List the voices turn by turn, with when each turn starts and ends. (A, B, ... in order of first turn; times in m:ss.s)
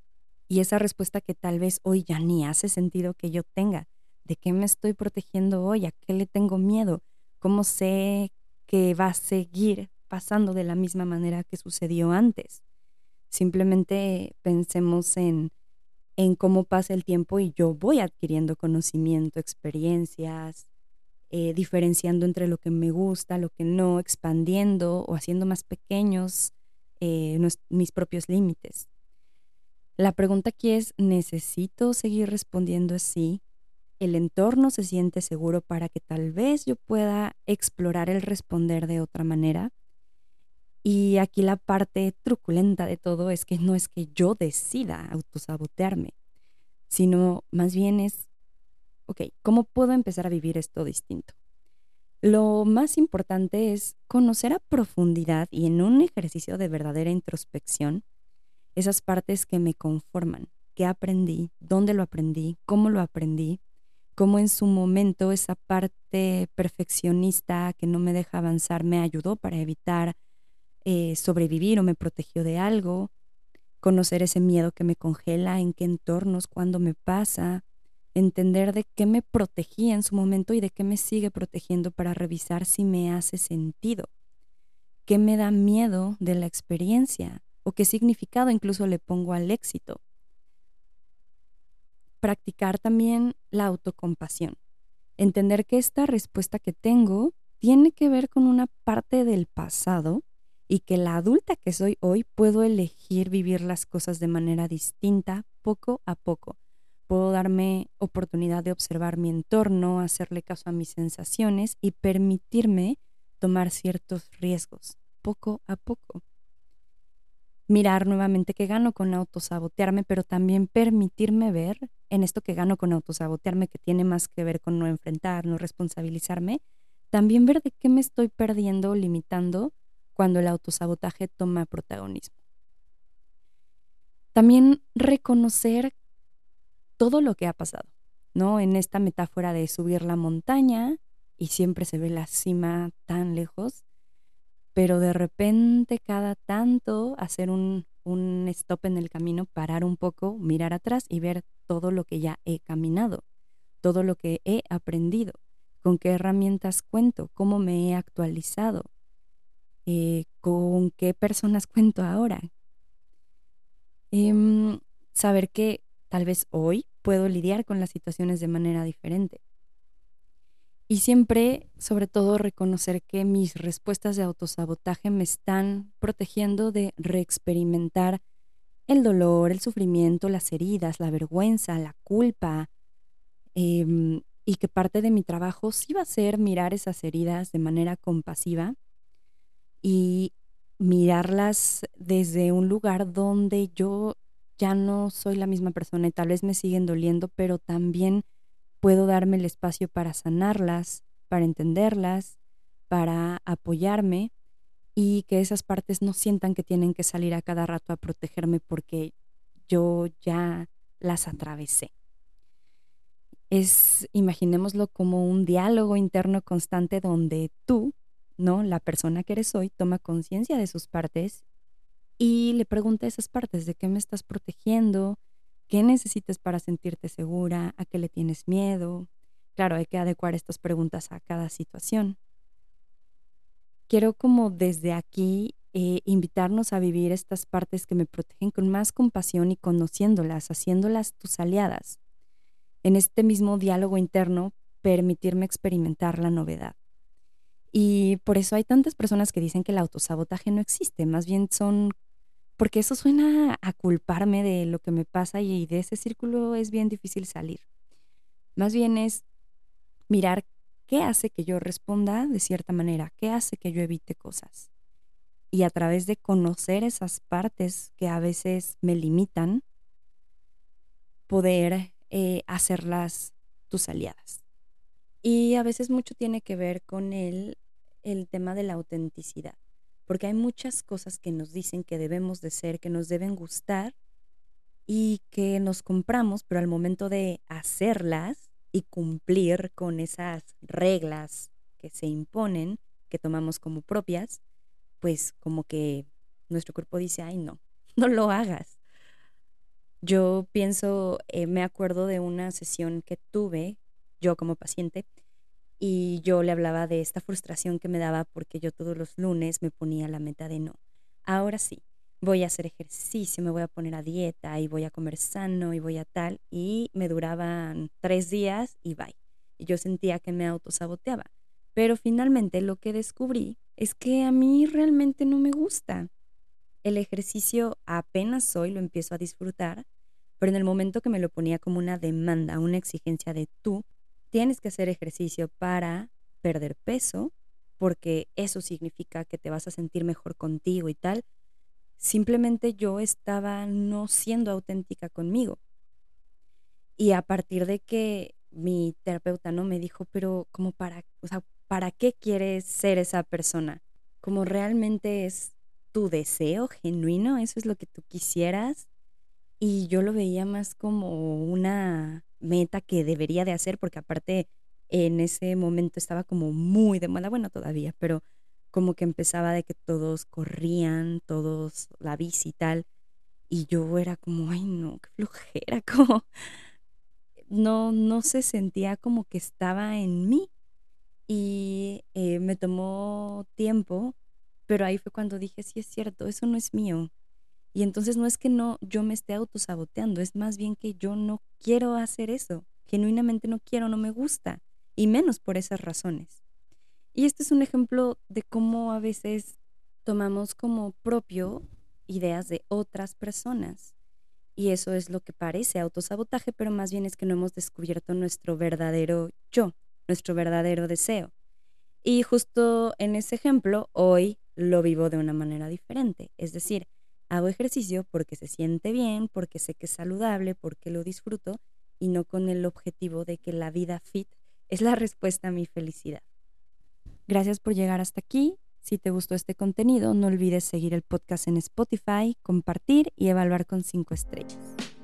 0:00.5-0:12.6 A
0:13.3-0:15.5 A
0:16.2-0:20.7 A
0:21.3-0:28.9 A
0:30.0-0:33.4 A
0:34.0-0:39.7 A
0:40.8-0:46.1 A
0:46.9-0:48.3 A
0:49.1-0:51.4 A
0:52.2-0:58.0 A
0:58.8-1:03.6 A
1:04.2-1:10.2 A
1:10.8-1:13.1 A
1:13.8-1:17.6 A
1:18.2-1:24.1 A
1:25.1-1:30.0 A
1:32.2-1:34.6 A
1:35.2-1:46.6 A
1:47.1-1:56.2 A
1:57.7-2:12.4 A
2:14.3-2:15.9 A
2:17.0-2:23.8 A
2:24.8-2:33.2 A
2:33.8-2:38.9 A
2:39.9-2:42.5 A
2:44.1-2:49.4 A
2:50.9-2:58.2 A
2:58.9-3:02.7 A
3:03.6-3:08.8 A
3:09.8-3:18.2 A
3:18.8-3:22.4 A
3:22.9-3:24.3 A
3:25.0-3:29.1 A
3:29.7-3:31.9 A
3:33.5-3:41.4 A
3:42.2-3:45.2 A
3:45.7-3:52.2 A
3:53.9-4:02.0 A
4:02.8-4:06.8 A
4:07.7-4:11.9 A
4:12.6-4:17.6 A
4:18.6-4:19.2 A
4:20.1-4:24.7 A
4:25.5-4:29.6 A
4:31.3-4:34.4 A
4:35.2-4:44.0 A
4:44.9-4:54.4 A
4:55.0-4:58.8 A
5:00.0-5:05.1 A
5:05.8-5:26.1 A
5:26.8-5:29.9 A
5:30.4-5:41.2 A
5:42.0-5:45.6 A
5:47.0-5:58.9 A
5:59.6-6:12.8 A
6:13.5-6:16.3 A
6:17.5-6:20.5 A
6:21.3-6:24.2 A
6:24.7-6:27.1 A
6:27.7-6:36.4 A
6:37.2-6:43.9 A
6:44.6-6:51.3 A
6:52.0-7:06.2 A
7:07.3-7:14.8 A